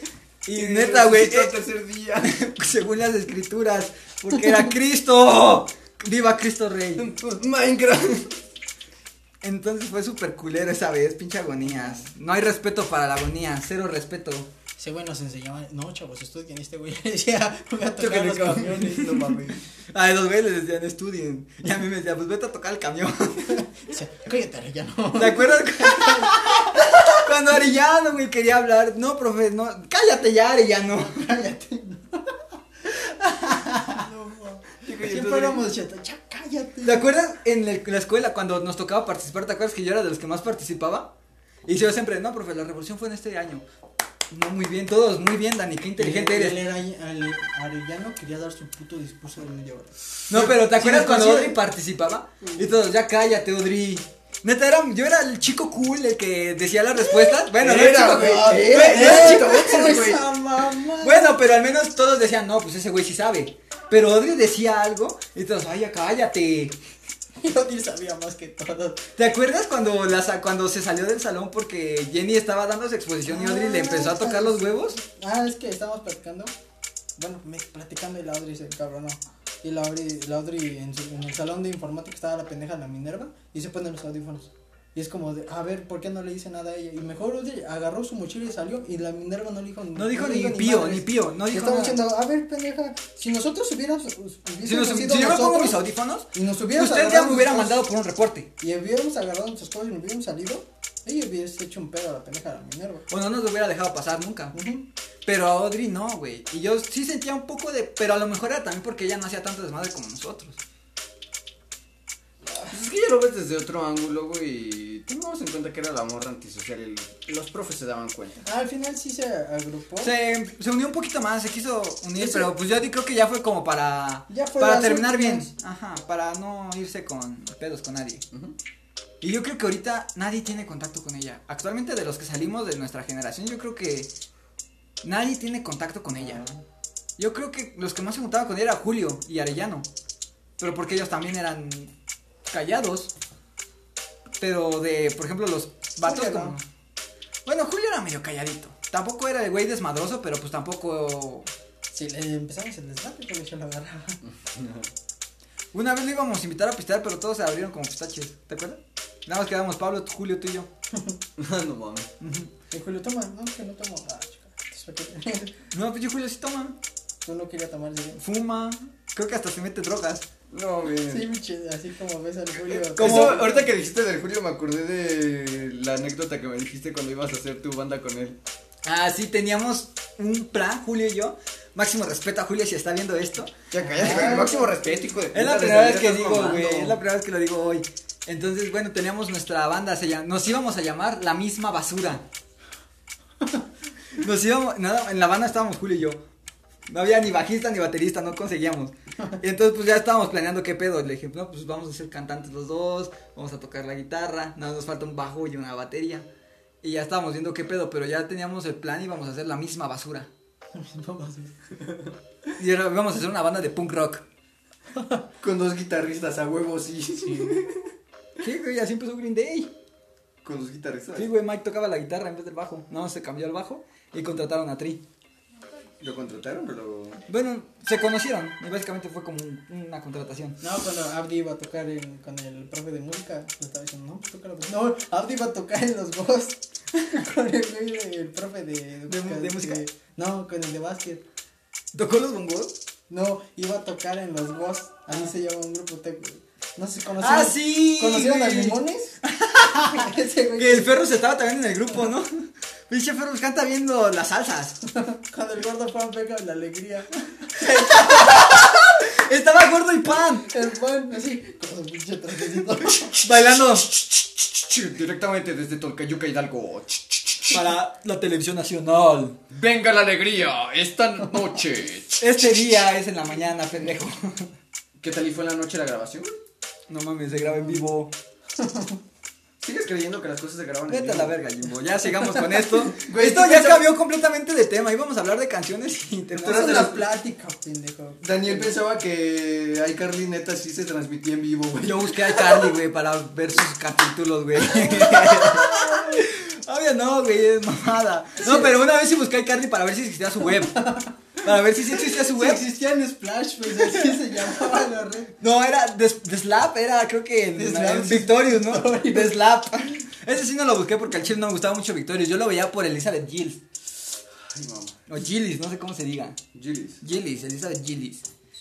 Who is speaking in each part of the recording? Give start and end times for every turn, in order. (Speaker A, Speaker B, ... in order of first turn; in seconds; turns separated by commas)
Speaker A: 0.5-1.5, Speaker B: 0.5-2.4, Speaker A: 2.2-7.1, Speaker B: 7.0-8.4, Speaker A: 9.4-14.5, Speaker C: 14.8-19.4, Speaker B: 18.0-19.6, Speaker A: 19.9-23.6, Speaker C: 23.5-26.8, Speaker A: 25.1-31.3, Speaker C: 30.9-32.4, Speaker C: 33.4-37.0, Speaker A: 33.5-33.9, Speaker B: 34.8-35.6, Speaker A: 36.8-41.1, Speaker A: 41.7-43.6, Speaker A: 44.3-46.6, Speaker C: 46.0-51.6, Speaker A: 50.3-59.9, Speaker C: 57.1-61.4, Speaker B: 57.5-60.2, Speaker A: 61.0-66.8, Speaker C: 67.4-69.0, Speaker A: 69.2-75.0, Speaker C: 73.3-76.5, Speaker C: 77.2-95.8, Speaker A: 90.0-92.0, Speaker A: 94.7-98.5, Speaker C: 96.3-97.8, Speaker C: 98.6-103.1, Speaker A: 103.1-104.6, Speaker C: 104.5-104.9, Speaker A: 105.2-110.6, Speaker C: 112.5-112.7, Speaker B: 112.7-118.4, Speaker C: 118.4-120.1, Speaker A: 120.0-128.2, Speaker C: 122.2-122.5, Speaker C: 124.3-125.5, Speaker A: 129.2-134.1, Speaker A: 135.0-136.4, Speaker B: 136.2-136.4, Speaker A: 137.2-139.9, Speaker A: 140.6-141.9, Speaker A: 142.5-143.1, Speaker A: 144.4-146.6, Speaker C: 146.0-146.6, Speaker A: 147.5-151.5, Speaker C: 151.9-154.2, Speaker B: 154.2-154.9, Speaker A: 155.7-160.7, Speaker C: 160.9-161.2, Speaker B: 161.4-162.1, Speaker A: 162.2-162.5, Speaker C: 162.7-165.6, Speaker A: 165.7-166.8, Speaker C: 167.2-168.2, Speaker A: 168.2-170.3, Speaker B: 170.5-171.3, Speaker C: 171.1-173.7, Speaker A: 172.8-173.5, Speaker B: 172.9-178.4, Speaker A: 178.8-183.5, Speaker B: 183.7-187.0, Speaker C: 183.8-184.8, Speaker A: 185.3-192.2, Speaker A: 194.1-196.2, Speaker A: 196.9-206.3, Speaker A: 206.8-210.3, Speaker C: 210.7-211.7, Speaker A: 212.6-214.2, Speaker C: 215.0-215.2, Speaker B: 215.4-217.9, Speaker C: 217.2-217.6, Speaker A: 218.4-219.7, Speaker B: 220.4-221.3, Speaker A: 221.2-225.0, Speaker B: 226.0-227.2, Speaker A: 227.3-230.6, Speaker C: 230.6-241.2, Speaker A: 239.1-239.8, Speaker A: 241.9-242.7, Speaker C: 243.1-249.2, Speaker A: 247.2-254.8, Speaker C: 249.8-250.9, Speaker C: 254.9-258.5, Speaker A: 257.6-260.5, Speaker C: 260.5-263.2, Speaker A: 263.0-263.9, Speaker B: 264.1-267.6, Speaker A: 267.5-269.4, Speaker B: 269.5-272.5, Speaker A: 272.2-274.5, Speaker B: 275.0-276.4, Speaker A: 276.9-278.1, Speaker C: 277.5-277.8, Speaker C: 278.6-279.0, Speaker B: 279.6-281.4, Speaker A: 280.9-287.0, Speaker B: 282.9-283.9, Speaker C: 286.3-288.7, Speaker B: 286.5-286.9, Speaker B: 288.2-292.8, Speaker A: 291.8-302.6, Speaker C: 294.8-296.2, Speaker C: 298.4-298.7, Speaker C: 300.6-301.1, Speaker C: 301.9-305.3, Speaker A: 303.8-304.2, Speaker A: 305.4-313.6, Speaker C: 307.6-309.4, Speaker B: 314.4-315.0, Speaker A: 315.1-316.4, Speaker B: 316.5-317.0, Speaker A: 317.0-318.2